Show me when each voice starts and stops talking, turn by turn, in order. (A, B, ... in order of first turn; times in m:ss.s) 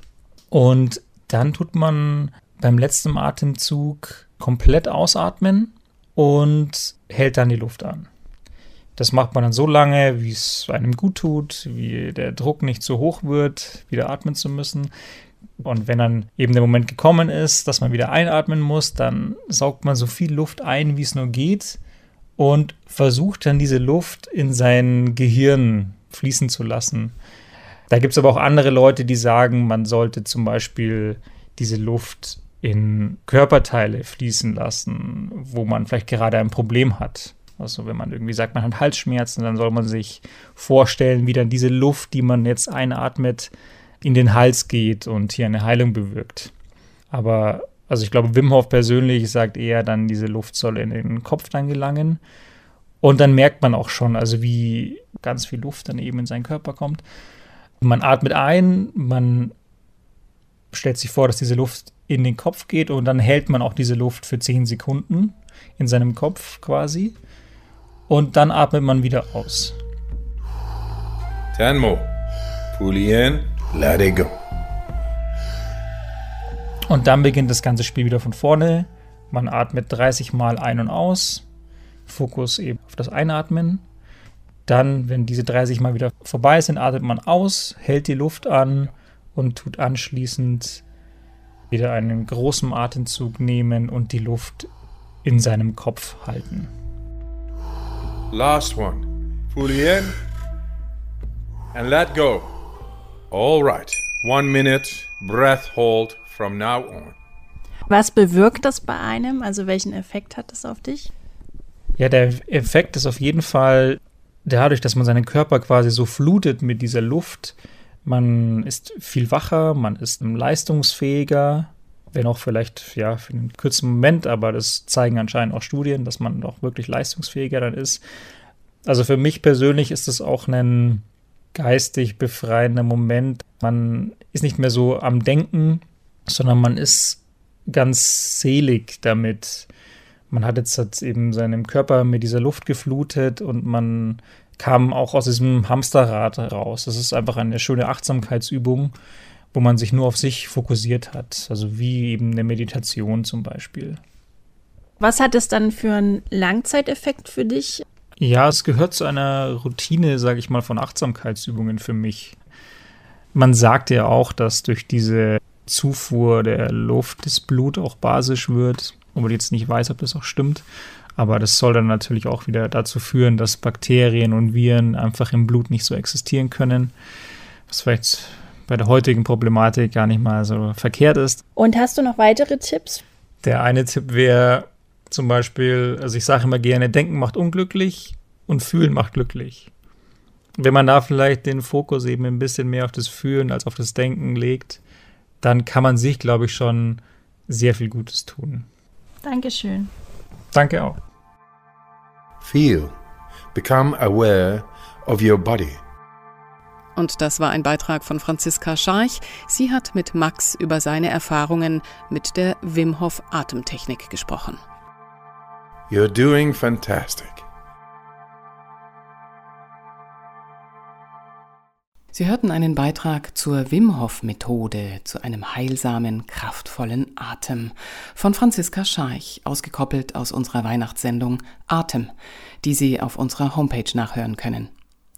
0:00.5-0:08.1 A
0:09.0-0:14.9 A
0:15.6-0:21.8 A
0:22.4-0:27.1 A
0:27.9-0:46.5 A
0:47.1-0:52.2 A
0:53.0-0:57.0 A
0:57.8-0:59.5 A
1:00.7-1:07.2 A
1:08.1-1:09.8 A
1:11.5-1:12.1 B
1:12.7-1:14.3 B
1:16.9-1:21.4 A
1:22.1-1:23.8 A
1:24.7-1:30.8 A
1:31.7-1:34.7 A
1:35.2-1:36.7 A
1:38.3-1:40.2 B
1:41.7-1:42.5 B
1:43.3-1:47.2 B
1:47.9-1:51.1 C
1:52.0-2:08.0 A
2:08.8-2:19.7 A
2:20.3-2:28.9 A
2:29.5-2:34.0 A
2:35.0-2:37.8 C
2:38.2-2:42.4 A
2:43.3-2:50.6 A
2:51.2-2:56.9 A
2:57.7-3:01.4 A
3:01.6-3:03.0 C
3:03.4-3:09.7 A
3:10.6-3:14.8 A
3:15.4-3:18.7 A
3:19.2-3:19.9 C
3:20.5-3:21.0 A
3:22.4-3:22.9 B
3:23.5-3:25.8 B
3:27.0-3:34.6 D
3:35.9-3:37.4 B
3:42.1-3:54.7 D